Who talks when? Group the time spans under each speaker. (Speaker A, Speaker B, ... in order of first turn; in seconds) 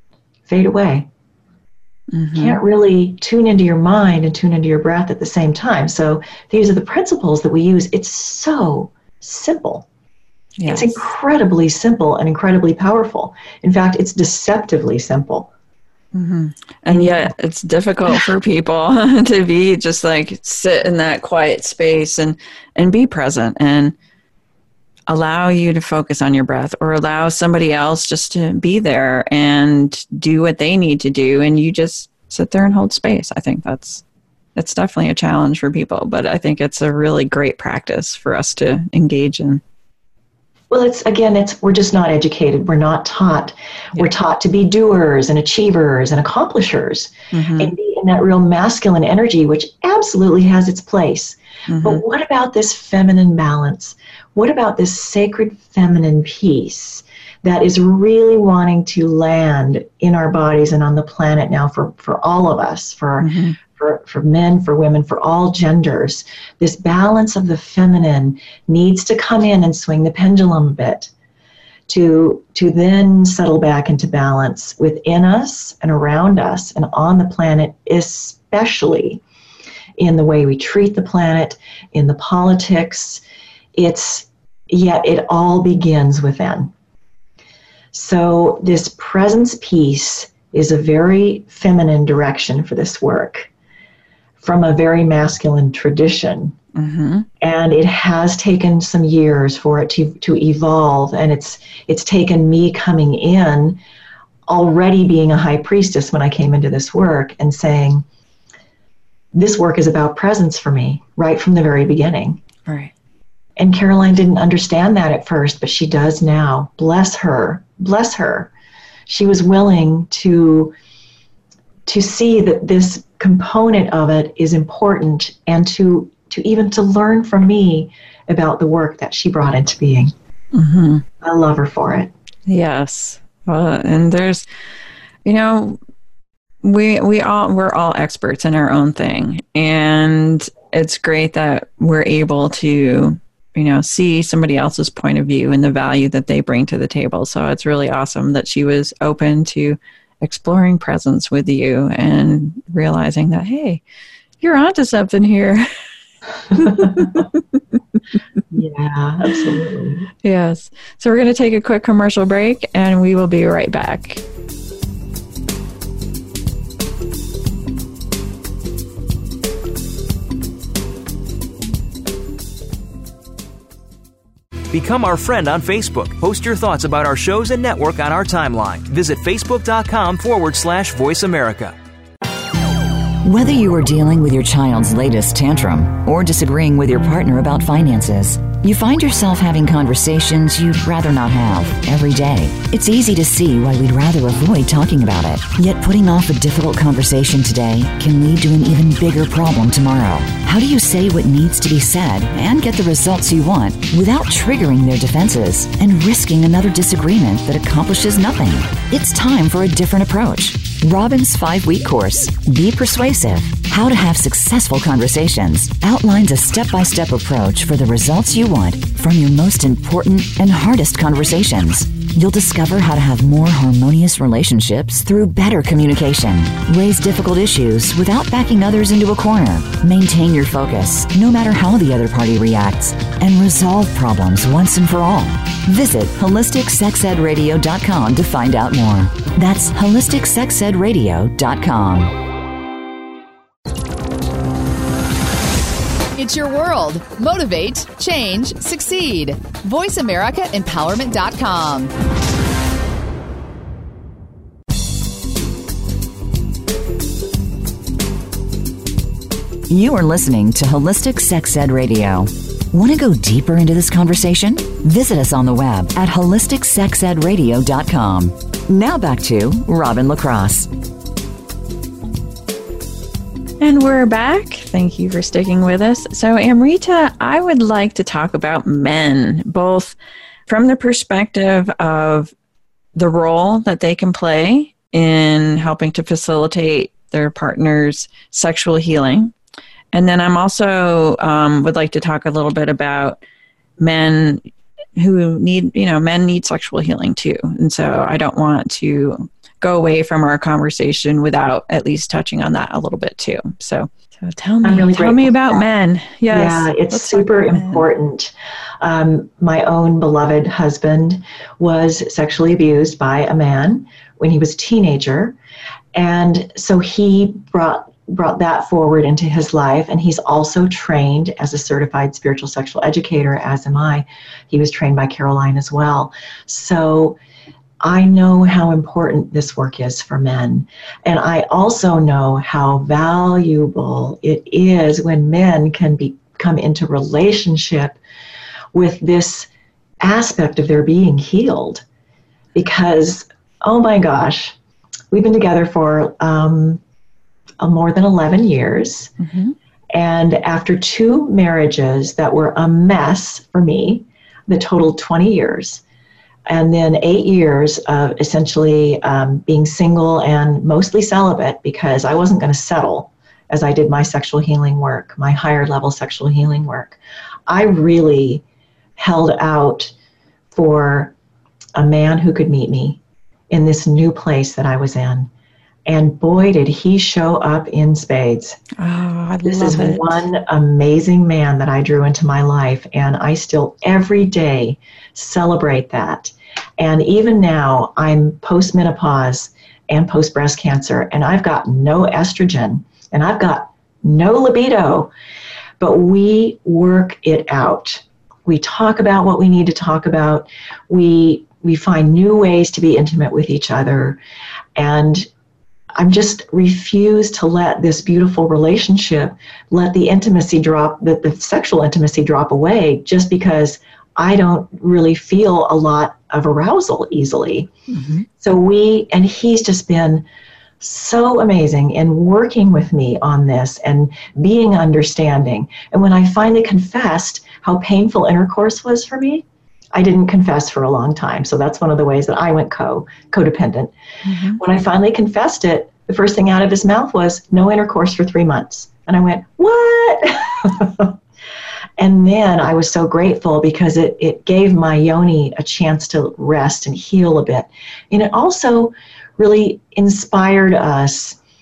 Speaker A: 0.5-1.1, 2.3-9.9, 10.7-15.5, 16.9-17.3, 40.7-71.1, 71.9-79.2, 80.0-83.2, 83.8-86.7, 87.9-93.5, 94.4-96.6, 97.4-103.8, 104.5-108.0, 109.3-112.4, 113.6-118.5, 119.1-120.8, 121.9-130.1, 131.2-132.1, 156.7-157.2, 158.5-160.1, 304.6-305.6, 306.3-315.4, 315.9-327.2, 327.8-338.0, 338.7-339.5, 340.0-341.8, 342.6-344.5, 345.1-346.8, 347.6-349.1, 349.9-355.8, 356.5-368.4, 369.0-369.9, 370.5-371.1, 371.8-373.0, 373.5-375.3, 375.9-378.6, 379.4-395.1, 395.8-404.2, 404.8-405.3, 406.0-417.7, 418.4-420.2, 420.8-433.9, 434.6-441.1, 442.0-451.4
Speaker B: 2.1-2.6, 10.6-11.0, 16.1-23.9, 25.1-34.0, 34.6-39.6, 47.3-47.7, 51.7-52.0, 63.2-63.6, 96.8-97.3, 112.7-112.9, 130.5-131.0, 132.5-134.4, 135.2-135.8, 136.6-153.8, 154.4-155.7, 156.6-157.3, 160.2-164.2, 273.6-282.3, 283.0-289.3, 289.9-293.2, 293.8-294.5, 295.0-307.8, 349.2-349.5, 378.8-380.3, 417.9-418.2, 434.3-434.6
Speaker C: 174.7-181.7
Speaker D: 183.2-242.2, 259.7-270.7
Speaker E: 246.2-251.9